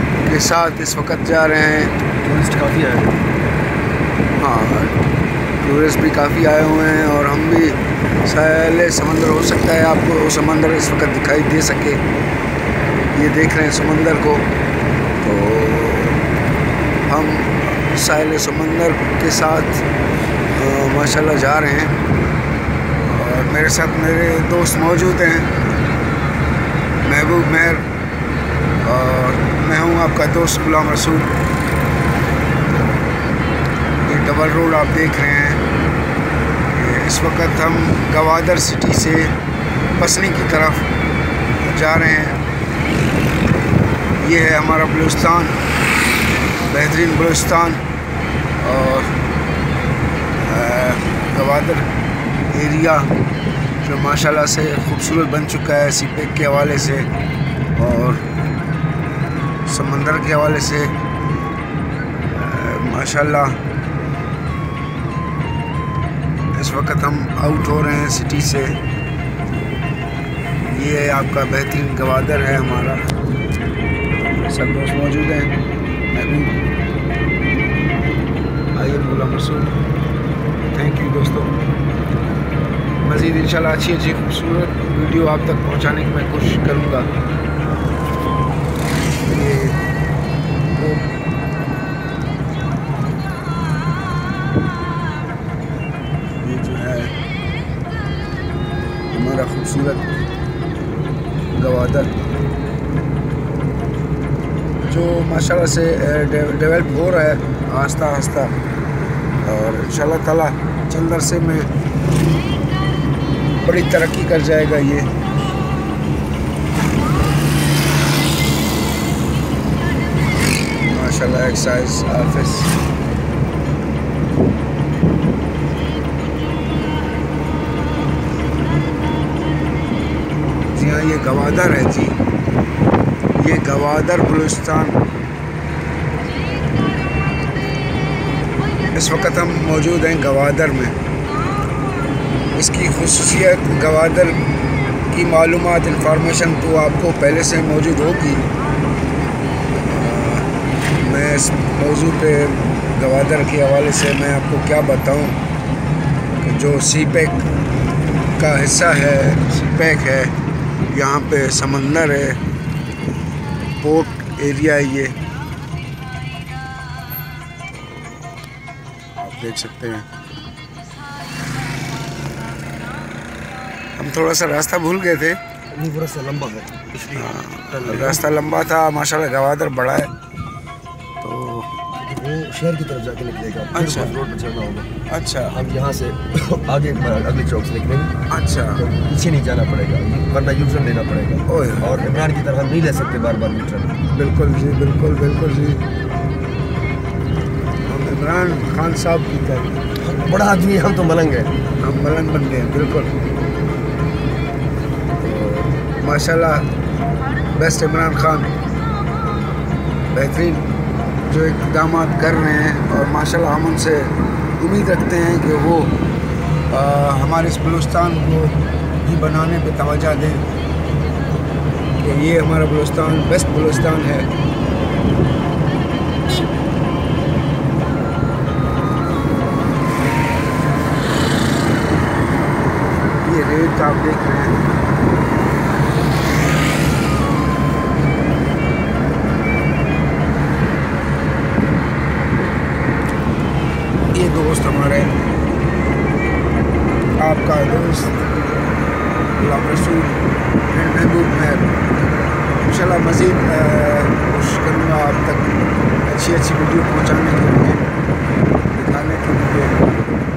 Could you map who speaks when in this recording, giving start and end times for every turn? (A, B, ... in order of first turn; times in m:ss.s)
0:00.2-0:01.9 A
0:02.2-0:03.2 B
0:04.4-0:05.0 A
0:05.6-0:12.0 A
0:13.1-0:14.5 A
0:15.2-0:16.2 A
0:17.1-0:19.8 A
0:20.5-0:22.0 A
0:23.0-0:25.5 A
0:27.0-0:27.8 A
0:28.8-0:31.3 A
0:34.0-0:35.6 A
0:36.7-0:39.3 A
0:40.0-0:40.9 A
0:41.6-0:42.4 A
0:44.2-0:45.6 A
0:46.6-0:47.8 A
0:48.6-0:49.1 A
0:50.4-0:51.9 A
0:52.5-0:53.1 A
0:53.8-0:57.1 A
0:57.8-0:58.2 A
0:59.6-1:00.9 A
1:02.3-1:03.6 A
1:06.5-1:08.8 A
1:10.6-1:13.1 A
1:14.2-1:15.5 A
1:16.1-1:16.5 A
1:18.7-1:19.7 A
1:20.7-1:21.5 A
1:23.0-1:27.1 A
1:29.2-1:29.8 A
1:30.8-1:31.0 A
1:36.4-1:37.1 A
1:39.1-1:40.0 A
1:41.5-1:42.1 A
1:44.8-1:48.5 A
1:49.4-1:51.7 A
1:53.6-1:55.1 A
2:00.8-2:02.7 A
2:10.7-2:12.2 A
2:13.4-2:15.0 A
2:18.9-2:20.9 A
2:22.5-2:24.4 A
2:25.1-2:28.5 A
2:29.7-2:35.4 A
2:36.4-2:37.4 A
2:38.4-2:40.3 A
2:40.9-2:42.4 A
2:43.8-2:45.2 A
2:49.2-2:50.0 A
2:54.0-2:55.4 A
2:55.7-2:58.3 B
2:57.1-3:00.1 A
3:01.2-3:01.7 A
3:02.0-3:04.9 B
3:03.7-3:04.2 A
3:05.1-3:05.6 A
3:05.5-3:08.1 B
3:08.3-3:08.8 A
3:08.8-3:14.1 B
3:11.5-3:11.9 A
3:14.1-3:15.8 A
3:17.8-3:19.8 A
3:20.0-3:21.5 B
3:21.8-3:23.1 A
3:25.2-3:26.7 A
3:27.5-3:28.5 A
3:30.1-3:30.6 A
3:31.2-3:35.9 A
3:36.7-3:40.4 A
3:42.0-3:44.3 A
3:53.2-3:54.6 A
4:04.1-4:05.1 A
4:07.1-4:08.6 A
4:09.4-4:11.8 A
4:12.6-4:17.9 A
4:18.7-4:19.9 A